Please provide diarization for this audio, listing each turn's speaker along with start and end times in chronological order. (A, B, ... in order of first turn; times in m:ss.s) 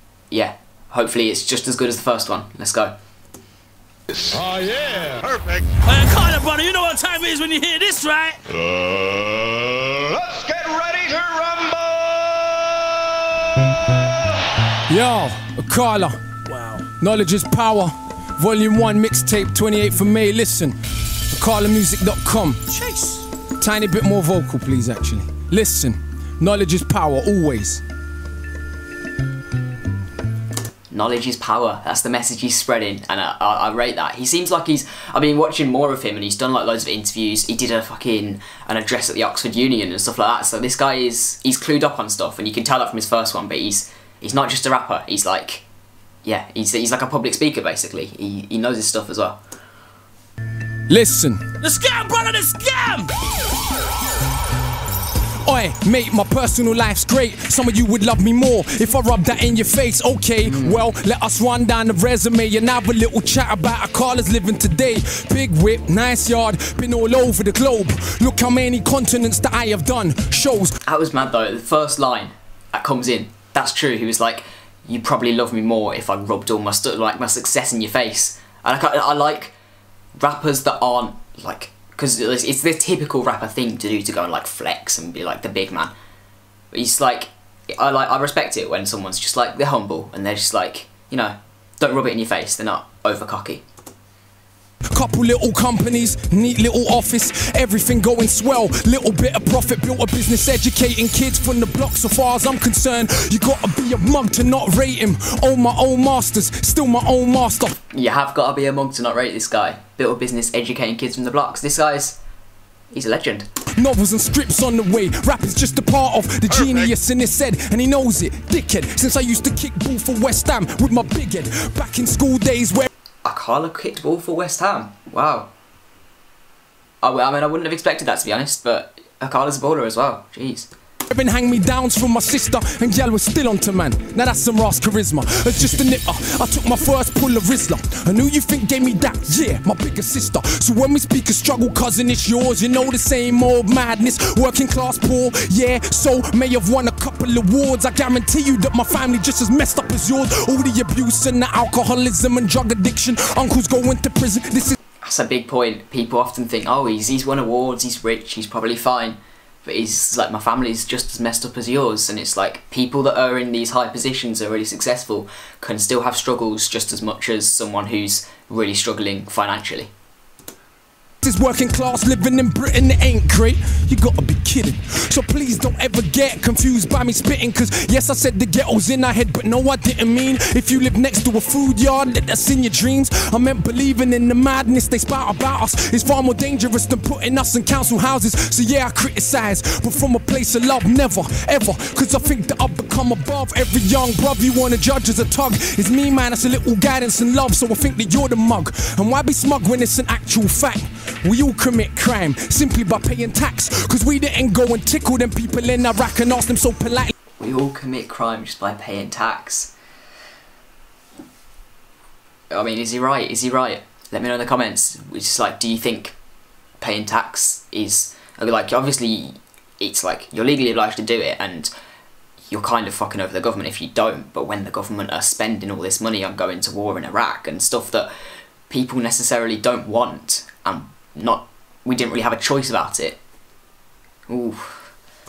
0:00.3-0:03.0 A
0:04.1-0:04.5 B
0:05.2-0:05.8 B
0:05.8-0:08.4 C
0:08.5-0:14.0 B
0:14.9-0:16.2 D
0:16.5-0:16.8 C
0:17.0-0:20.8 D
0:21.3-0:22.7 D
0:22.8-0:23.2 C
0:23.6-0:27.8 D
0:30.9-0:45.6 A
0:46.2-0:49.4 A
0:50.9-0:51.5 D
0:51.6-0:53.1 C
0:55.4-1:10.8 D
1:00.5-1:00.8 A
1:10.8-1:19.5 A
1:20.2-1:25.9 A
1:26.7-1:33.6 A
1:34.9-1:47.8 D
1:47.9-1:52.2 A
1:52.9-1:53.5 A
1:53.7-2:02.9 D
2:03.2-2:05.5 A
2:07.0-2:10.7 A
2:11.1-2:34.8 D
2:35.0-2:49.9 A
2:51.2-3:27.1 D
3:27.4-3:29.7 A
3:32.5-3:36.1 A
3:36.8-3:41.7 A
3:42.5-3:48.1 A
3:48.7-3:53.2 A
3:54.3-3:54.9 A